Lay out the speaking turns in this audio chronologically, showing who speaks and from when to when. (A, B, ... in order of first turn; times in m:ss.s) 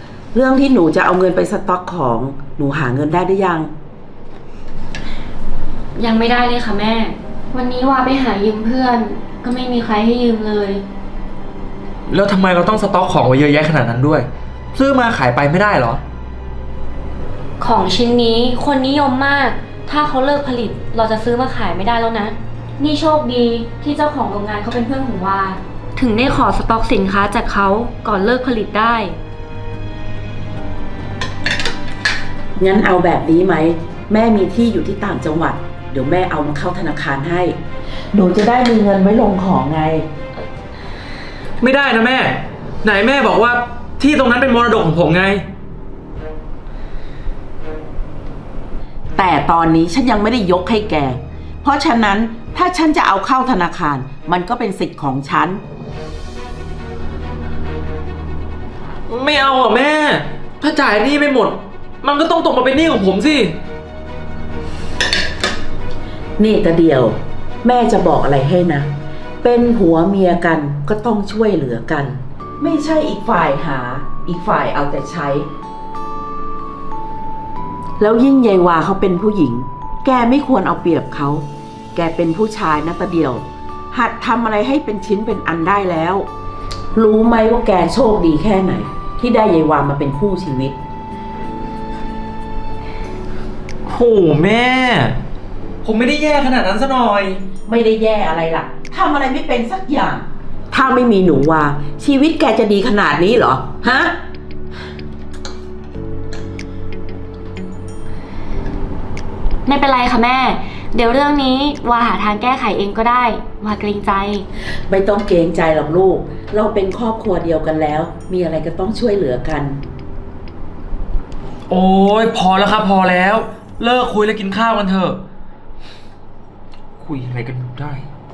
0:00.3-0:03.7 A
0:06.0-0:10.8 B
0:12.1-0:16.0 C
0:17.6-0:29.2 B
0:32.6-0:37.6 A
0:38.1-0:40.1 A
0:41.6-0:45.5 C
0:49.2-0:55.6 A
0:59.1-1:03.6 C
1:06.4-1:15.5 A
1:18.0-1:26.3 A
1:26.9-1:30.8 A
1:33.9-1:35.2 C
1:35.8-1:37.4 C
1:37.7-1:44.2 A
1:49.7-1:54.4 B
1:54.9-1:59.8 A
2:01.7-2:05.2 C
2:07.0-2:08.1 C